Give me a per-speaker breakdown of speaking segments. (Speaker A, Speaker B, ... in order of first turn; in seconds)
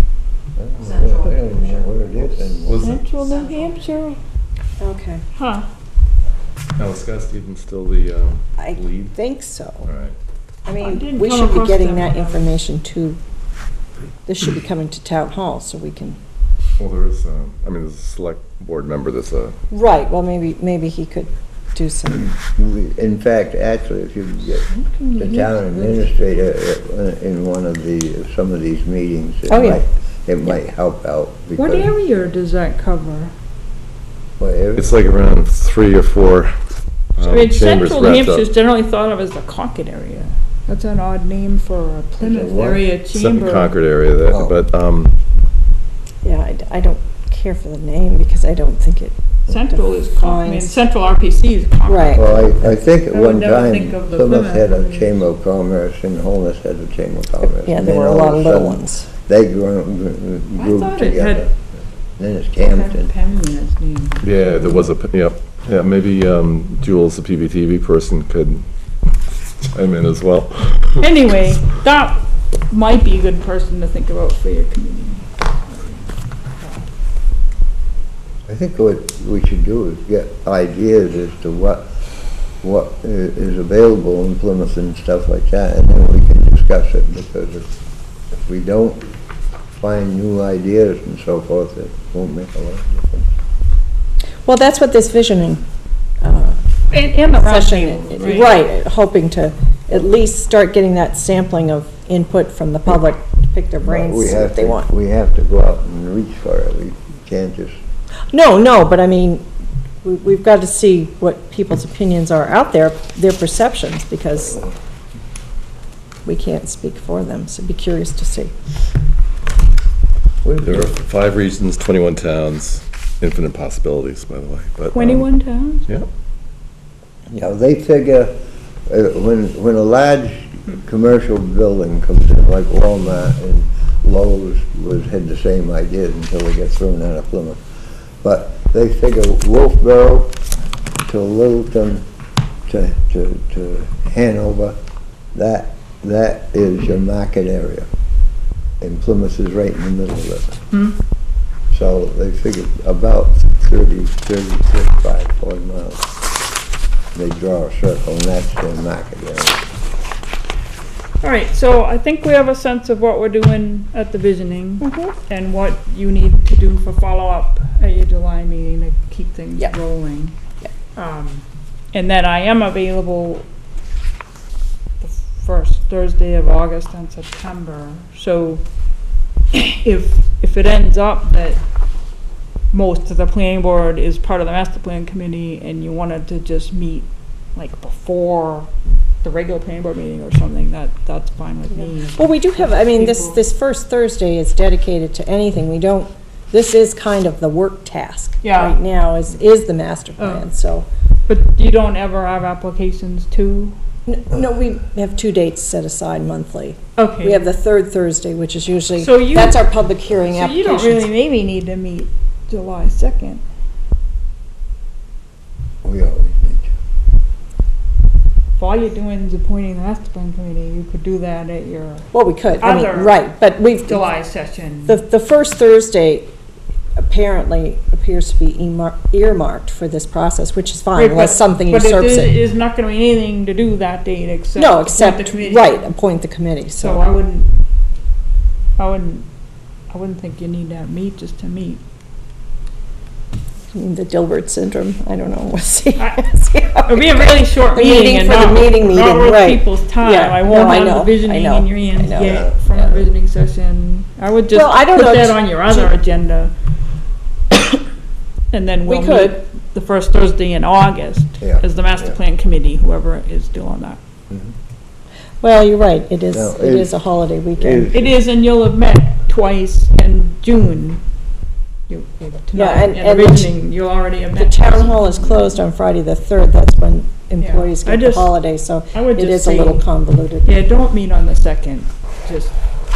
Speaker A: 0.6-2.8, 22.2-31.9, 34.4-34.9, 42.2-42.8, 44.3-44.5, 52.2-63.1, 78.5-81.9, 82.6-87.7, 88.3-89.1, 89.8-93.3, 103.8-107.8, 120.4-120.9, 127.3-137.6, 138.2-140.4, 141.1-142.1, 142.7-144.8, 145.3-147.9, 148.8-150.6, 151.7-156.1, 157.1-159.6, 215.8-216.7, 252.2-253.0, 261.4-262.2, 266.3-267.0, 267.6-268.2
Speaker B: 2.6-3.0, 6.8-9.1, 9.8-10.2, 16.8-19.5, 34.8-36.5, 37.2-38.5, 43.1-45.1, 64.2-68.7, 69.7-71.1, 120.6-125.3
Speaker C: 2.8-4.2, 5.3-5.6, 10.8-12.5, 24.7-26.0, 31.6-33.3, 37.2-43.8, 49.5-52.6, 53.1-55.2, 60.5-61.5, 62.6-64.9, 71.0-76.9, 96.9-98.7, 124.9-125.9, 150.7-151.0, 161.2-170.3, 170.9-173.5, 175.0-178.6, 179.5-181.6, 182.7-193.4, 198.4-198.8, 200.2-200.4, 201.3-203.8, 207.0-207.5, 208.9-213.4, 218.6-223.2, 223.8-225.0, 230.9-235.8, 236.8-237.5, 238.8-239.3, 239.9-241.8, 246.0-256.5, 258.5-264.0, 267.9-271.0, 271.9-275.6, 277.4-278.4, 278.9-279.9, 280.4-282.6
Speaker D: 4.8-5.2, 8.6-9.9, 10.6-13.2, 14.2-16.2, 19.7-22.3, 29.5-29.8, 46.2-50.8, 51.9-52.3, 57.4-59.1, 94.5-95.6, 96.2-96.6, 97.3-104.9, 108.3-109.5, 110.0-114.6, 116.2-118.5, 164.8-165.1, 192.1-200.9, 204.1-211.1, 222.1-224.0, 224.8-226.3, 227.0-232.3, 234.6-237.0, 243.7-253.0, 254.5-255.9, 258.9-259.4, 265.4-267.9, 272.5-273.6, 274.3-280.5